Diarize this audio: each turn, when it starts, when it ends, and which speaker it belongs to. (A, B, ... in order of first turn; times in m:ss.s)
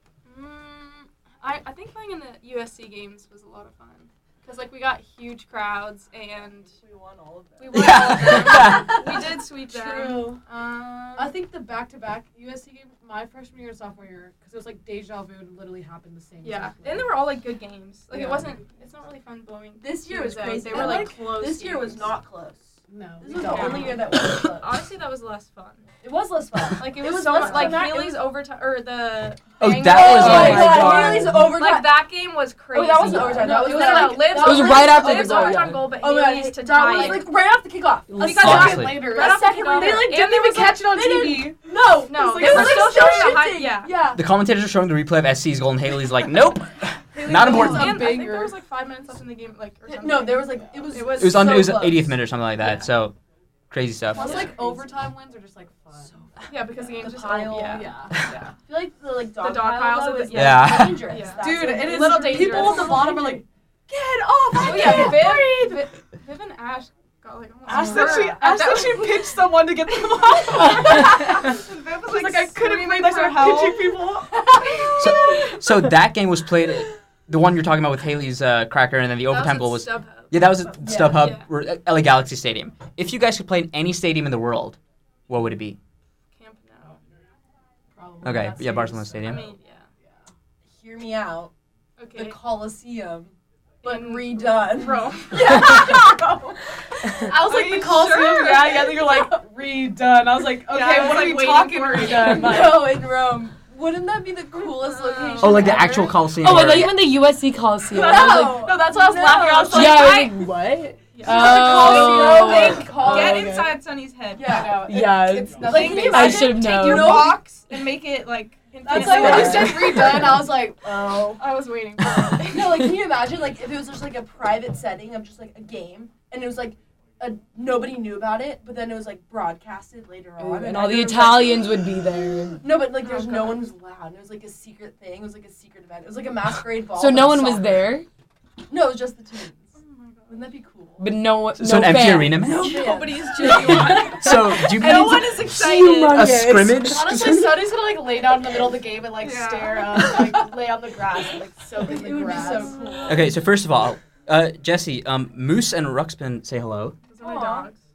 0:00.2-0:06.7 A
0:06.8-0:09.0 B
0:07.6-0:11.4 A
0:07.7-0:09.0 C
0:09.7-0:10.3 B
0:09.7-0:10.3 D
0:11.2-0:17.1 D
0:16.4-0:22.1 A
0:18.1-0:18.5 B
0:19.8-0:24.8 B
0:20.7-0:21.2 D
0:22.9-0:24.0 D
0:23.4-0:25.8 A
0:26.0-0:28.3 B
0:26.8-0:37.3 A
0:27.3-0:27.9 D
0:29.6-0:31.4 C
0:29.9-0:32.1 B
0:30.0-0:31.4 E
0:32.7-0:44.2 B
0:32.9-0:36.0 E
0:33.5-0:34.3 D
0:38.2-0:41.0 A
0:38.2-0:43.3 D
0:38.3-0:39.1 C
0:42.1-0:44.0 A
0:44.1-0:48.1 C
0:47.1-0:48.5 D
0:47.4-0:51.9 A
0:47.4-0:47.7 B
0:49.8-0:52.2 B
0:51.1-0:53.1 C
0:52.6-0:52.9 A
0:53.7-0:54.4 C
0:54.1-0:56.2 D
0:54.2-0:54.6 A
0:54.2-0:54.8 B
0:56.0-0:57.9 B
0:56.5-0:58.5 A
0:57.7-0:58.2 D
0:58.6-1:03.4 B
0:59.4-1:03.4 A
1:00.3-1:01.2 C
1:01.4-1:05.8 D
1:04.5-1:05.6 B
1:04.5-1:14.1 A
1:07.6-1:15.6 D
1:07.7-1:08.6 B
1:14.7-1:15.0 A
1:15.0-1:24.8 C
1:19.3-1:21.5 A
1:20.8-1:21.4 B
1:25.3-1:25.8 C
1:26.3-1:27.0 A
1:27.9-1:30.2 D
1:28.2-1:29.4 C
1:29.2-1:29.9 A
1:30.6-1:31.5 B
1:32.0-1:32.4 A
1:32.1-1:36.6 B
1:33.8-1:35.9 A
1:35.4-1:36.1 D
1:37.2-1:39.1 A
1:37.2-1:43.0 D
1:39.0-1:39.3 B
1:40.6-1:42.8 A
1:42.3-1:47.0 B
1:44.6-1:46.0 A
1:45.4-1:47.0 C
1:46.3-1:48.7 E
1:47.9-1:50.3 B
1:47.9-1:50.4 D
1:49.2-1:50.3 A
1:49.7-1:53.5 E
1:51.1-1:54.9 A
1:51.2-1:53.8 B
1:51.3-1:53.7 D
1:54.3-1:57.4 B
1:54.4-1:57.3 D
1:54.8-1:57.4 E
1:55.6-2:00.2 A
1:58.8-2:01.0 D
1:58.9-2:01.4 B
1:58.9-2:00.4 E
2:01.4-2:03.0 A
2:02.4-2:11.9 B
2:10.4-2:12.7 E
2:12.6-2:17.9 B
2:13.0-2:13.7 A
2:16.9-2:18.1 E
2:18.7-2:19.7 B
2:19.8-2:20.6 A
2:20.3-2:21.1 B
2:21.0-2:27.2 E
2:21.5-2:22.8 C
2:22.4-2:23.8 B
2:22.5-2:26.3 A
2:23.6-2:27.6 C
2:26.9-2:32.9 D
2:29.2-2:30.4 A
2:31.8-2:33.3 B
2:32.2-2:33.2 A
2:33.1-2:37.0 C
2:37.1-2:37.8 A
2:37.2-2:37.7 B